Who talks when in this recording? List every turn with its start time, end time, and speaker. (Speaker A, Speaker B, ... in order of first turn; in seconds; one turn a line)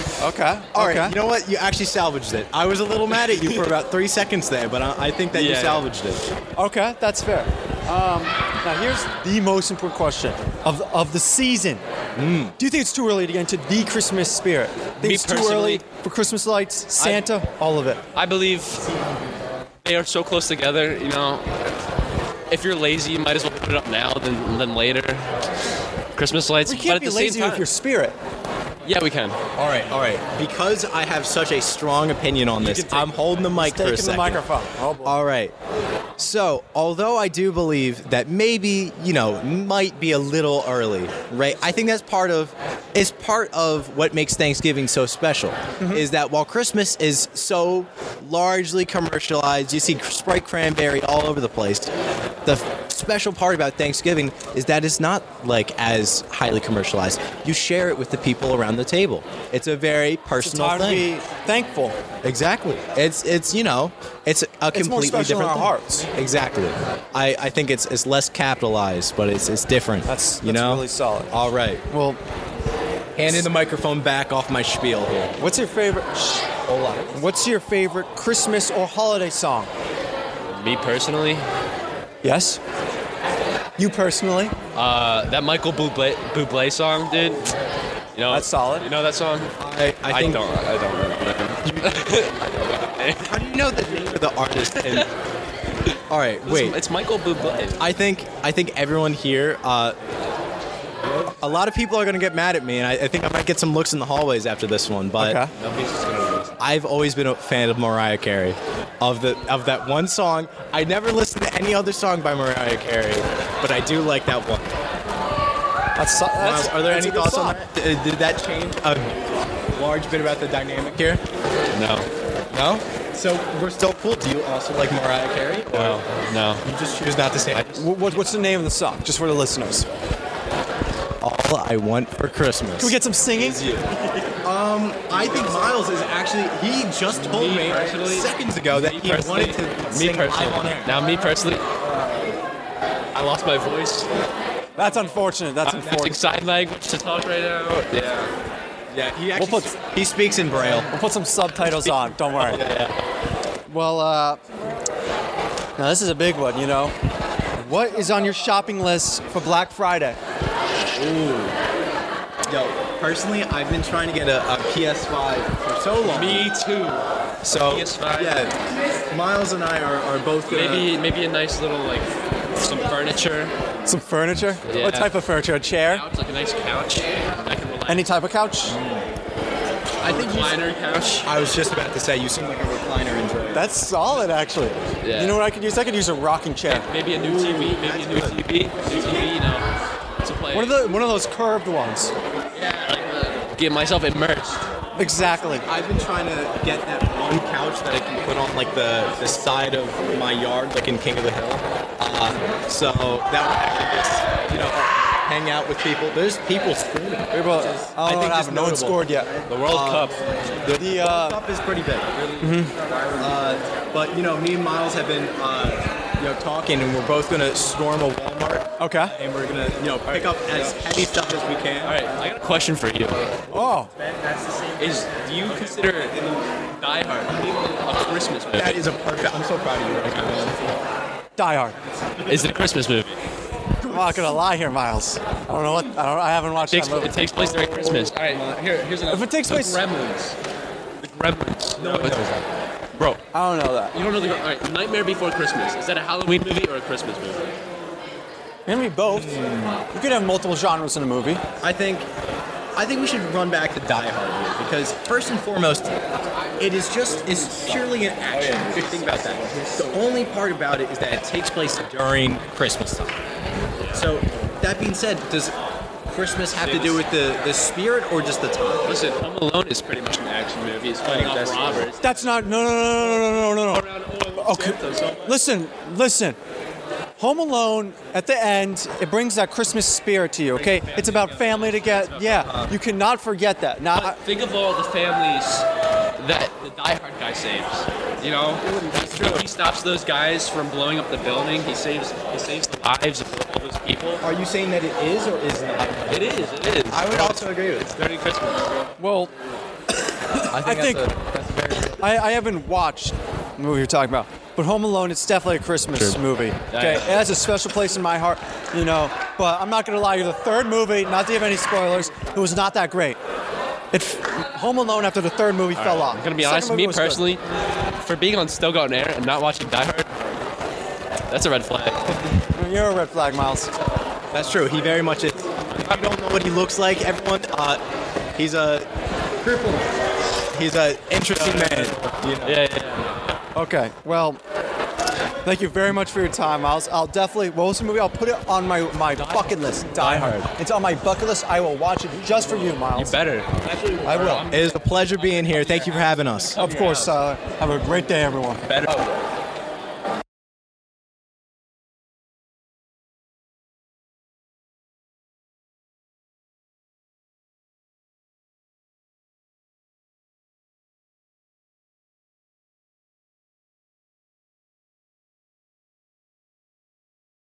Speaker A: 0.2-1.2
Speaker B: 0.8-6.2
Speaker A: 6.6-11.8
Speaker B: 12.2-12.6
Speaker A: 12.6-18.0
Speaker C: 15.0-15.9
Speaker C: 16.9-17.4
Speaker C: 18.1-18.8
Speaker C: 19.8-21.5
Speaker C: 22.5-25.3
Speaker C: 26.1-27.7
Speaker A: 26.6-28.2
Speaker C: 28.9-29.4
Speaker B: 29.6-34.4
Speaker C: 32.6-33.3
Speaker A: 33.5-35.2
Speaker B: 35.0-35.5
Speaker B: 36.2-51.9
Speaker A: 45.8-46.0
Speaker B: 52.5-61.1
Speaker A: 60.4-62.0
Speaker B: 62.2-71.9
Speaker A: 64.7-66.1
Speaker A: 70.1-71.3
Speaker A: 71.9-72.2
Speaker B: 73.2-75.3
Speaker A: 75.4-76.3
Speaker B: 76.7-77.3
Speaker A: 77.1-79.7
Speaker C: 80.5-81.4
Speaker A: 82.2-82.6
Speaker A: 83.8-84.6
Speaker C: 84.8-87.5
Speaker C: 88.2-89.5
Speaker A: 88.3-88.9
Speaker B: 89.6-90.4
Speaker C: 90.1-93.3
Speaker B: 93.2-95.1
Speaker B: 96.1-96.8
Speaker C: 96.5-97.9
Speaker B: 97.8-100.0
Speaker B: 101.4-105.5
Speaker A: 105.2-105.5
Speaker C: 105.6-106.5
Speaker B: 106.6-114.7
Speaker A: 116.0-117.6
Speaker B: 116.4-119.2
Speaker B: 119.7-121.2
Speaker C: 121.8-122.1
Speaker B: 122.5-126.0
Speaker C: 125.7-126.6
Speaker B: 126.6-127.8
Speaker C: 127.5-128.6
Speaker A: 127.8-129.9
Speaker B: 131.2-133.9
Speaker A: 132.8-133.6
Speaker B: 134.4-141.3
Speaker C: 137.2-141.7
Speaker C: 143.1-144.1
Speaker A: 144.8-146.2
Speaker C: 145.7-148.3
Speaker B: 148.9-150.9
Speaker A: 149.4-149.7
Speaker A: 150.5-152.6
Speaker B: 152.4-152.9
Speaker A: 153.7-154.4
Speaker A: 155.8-156.9
Speaker A: 157.6-160.2
Speaker B: 161.0-161.6
Speaker B: 162.5-166.5
Speaker C: 166.0-168.4
Speaker B: 167.4-168.5
Speaker B: 169.1-170.9
Speaker C: 170.5-173.5
Speaker A: 173.8-176.1
Speaker C: 174.7-175.2
Speaker C: 175.8-178.1
Speaker A: 177.9-178.8
Speaker B: 178.8-179.0
Speaker C: 180.0-181.3
Speaker B: 180.1-180.4
Speaker B: 181.2-183.7
Speaker A: 183.5-186.9
Speaker C: 185.0-185.4
Speaker C: 186.7-189.7
Speaker B: 187.1-189.3
Speaker C: 190.2-190.9
Speaker A: 190.5-192.1
Speaker C: 192.6-194.6
Speaker A: 195.0-195.7
Speaker B: 195.7-212.2
Speaker A: 207.3-209.3
Speaker C: 209.5-210.2
Speaker A: 210.7-211.4
Speaker A: 212.4-212.7
Speaker B: 213.2-222.1
Speaker A: 218.8-219.2
Speaker C: 221.8-223.4
Speaker A: 223.5-223.9
Speaker C: 224.8-228.8
Speaker B: 228.5-230.7
Speaker A: 231.4-231.8
Speaker C: 232.3-233.2
Speaker B: 233.9-234.2
Speaker A: 233.9-237.4
Speaker C: 236.7-240.4
Speaker A: 239.1-239.8
Speaker C: 241.0-242.3
Speaker B: 241.8-242.4
Speaker A: 243.3-243.9
Speaker C: 243.9-247.4
Speaker A: 248.7-249.4
Speaker B: 249.1-249.8
Speaker A: 249.9-251.4
Speaker B: 251.6-252.1
Speaker B: 252.8-256.0
Speaker B: 256.6-263.2
Speaker C: 258.4-259.6
Speaker B: 263.9-265.6
Speaker B: 266.1-268.9
Speaker C: 266.6-267.0
Speaker C: 268.9-272.3
Speaker B: 271.0-271.9
Speaker A: 272.0-276.4
Speaker C: 273.2-275.3
Speaker A: 277.2-284.2
Speaker C: 280.6-282.8
Speaker C: 284.0-285.7
Speaker C: 286.2-288.6
Speaker B: 288.7-289.4
Speaker C: 289.1-294.2
Speaker B: 294.2-297.9
Speaker C: 296.1-297.4
Speaker C: 297.9-298.8
Speaker A: 299.0-299.3
Speaker A: 300.6-301.1
Speaker C: 300.6-301.2
Speaker A: 302.0-313.2
Speaker C: 306.7-307.2
Speaker A: 313.9-317.3
Speaker C: 315.7-317.4
Speaker C: 318.0-320.1
Speaker C: 321.3-322.0
Speaker A: 322.5-323.7
Speaker B: 324.3-327.8
Speaker B: 328.4-328.9
Speaker B: 329.4-329.9
Speaker B: 330.5-332.6
Speaker C: 331.4-331.8
Speaker C: 332.5-333.1
Speaker A: 333.6-334.4
Speaker A: 335.4-343.2
Speaker C: 340.0-340.5
Speaker C: 342.9-346.0
Speaker A: 344.1-344.4
Speaker B: 344.4-346.6
Speaker A: 346.6-348.6
Speaker C: 346.6-347.1
Speaker C: 348.7-349.1